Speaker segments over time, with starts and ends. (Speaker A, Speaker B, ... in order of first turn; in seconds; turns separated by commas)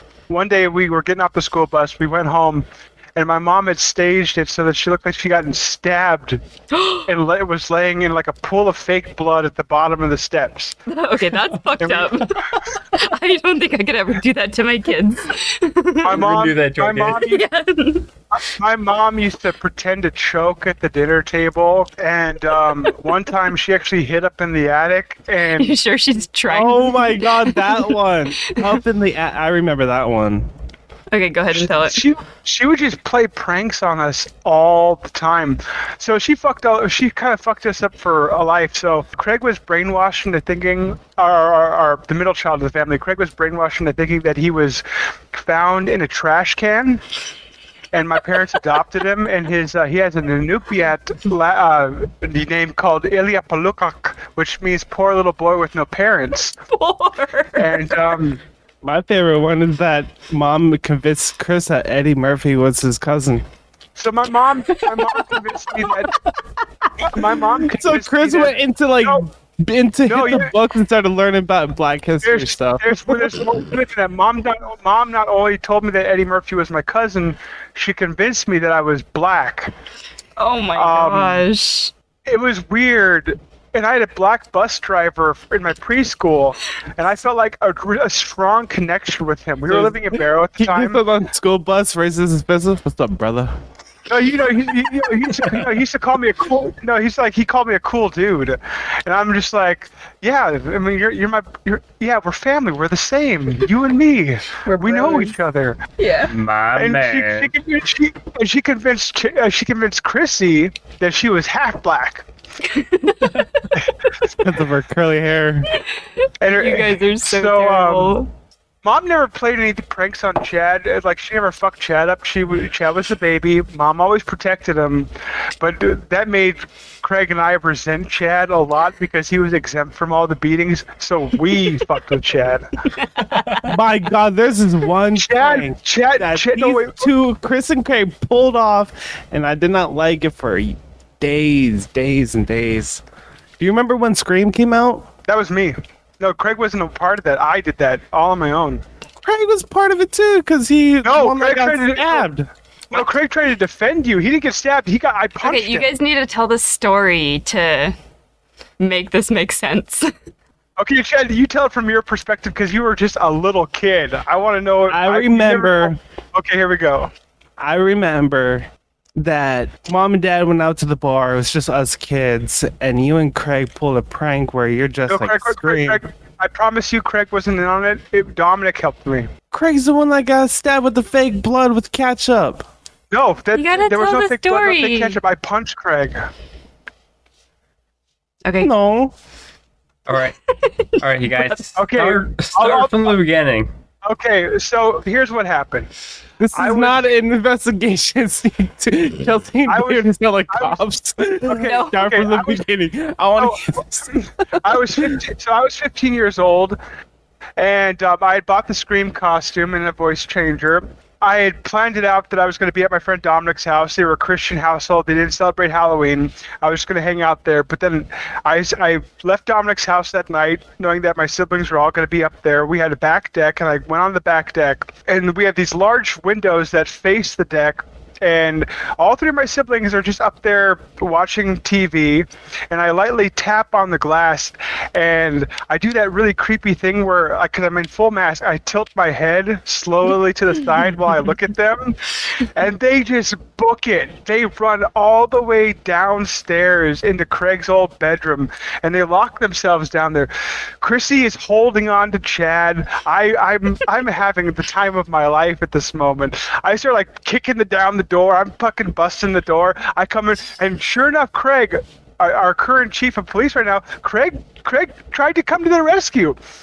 Speaker A: 0.3-6.4, Speaker B: 6.7-7.1, Speaker A: 7.1-10.8, Speaker B: 10.9-16.3, Speaker A: 11.8-12.2, Speaker A: 16.0-17.4, Speaker C: 16.1-17.3, Speaker B: 17.2-18.1, Speaker A: 18.3-25.7, Speaker B: 25.6-28.8, Speaker D: 26.5-30.5, Speaker B: 31.1-32.1, Speaker A: 31.5-47.0, Speaker A: 47.9-56.5, Speaker B: 56.7-58.2, Speaker A: 57.6-58.4, Speaker D: 58.8-63.5, Speaker A: 64.0-66.2, Speaker B: 64.7-67.2, Speaker A: 67.0-69.2, Speaker D: 67.7-72.8, Speaker A: 70.1-70.5, Speaker A: 72.2-79.7, Speaker B: 80.4-81.9, Speaker A: 80.8-81.5, Speaker A: 82.3-91.0, Speaker D: 89.7-93.6, Speaker A: 94.1-105.8, Speaker B: 104.6-105.3, Speaker B: 106.0-106.3, Speaker C: 106.3-107.5, Speaker A: 106.8-112.3, Speaker B: 112.6-113.7, Speaker D: 114.3-115.7, Speaker B: 115.7-118.3, Speaker A: 116.4-118.2, Speaker A: 118.8-132.7, Speaker B: 133.0-133.4, Speaker D: 133.6-143.0, Speaker A: 135.2-137.1, Speaker D: 143.6-145.1, Speaker A: 145.3-148.8, Speaker D: 149.2-152.5, Speaker A: 151.0-152.3, Speaker A: 152.9-155.9, Speaker B: 155.4-158.0, Speaker B: 158.8-160.1, Speaker A: 160.8-167.1, Speaker D: 164.9-166.0, Speaker D: 167.6-176.0, Speaker A: 175.1-179.3, Speaker D: 179.5-182.7, Speaker A: 183.1-186.3, Speaker B: 183.6-185.2, Speaker B: 188.4-188.7, Speaker D: 188.6-189.1, Speaker C: 190.1-190.4, Speaker B: 190.6-190.9, Speaker C: 191.0-193.7, Speaker A: 191.8-193.2, Speaker A: 194.1-195.9, Speaker D: 196.4-205.2, Speaker A: 196.5-197.0, Speaker A: 199.7-200.8, Speaker B: 201.5-202.1, Speaker A: 201.5-202.6, Speaker A: 203.4-206.8, Speaker A: 207.6-266.4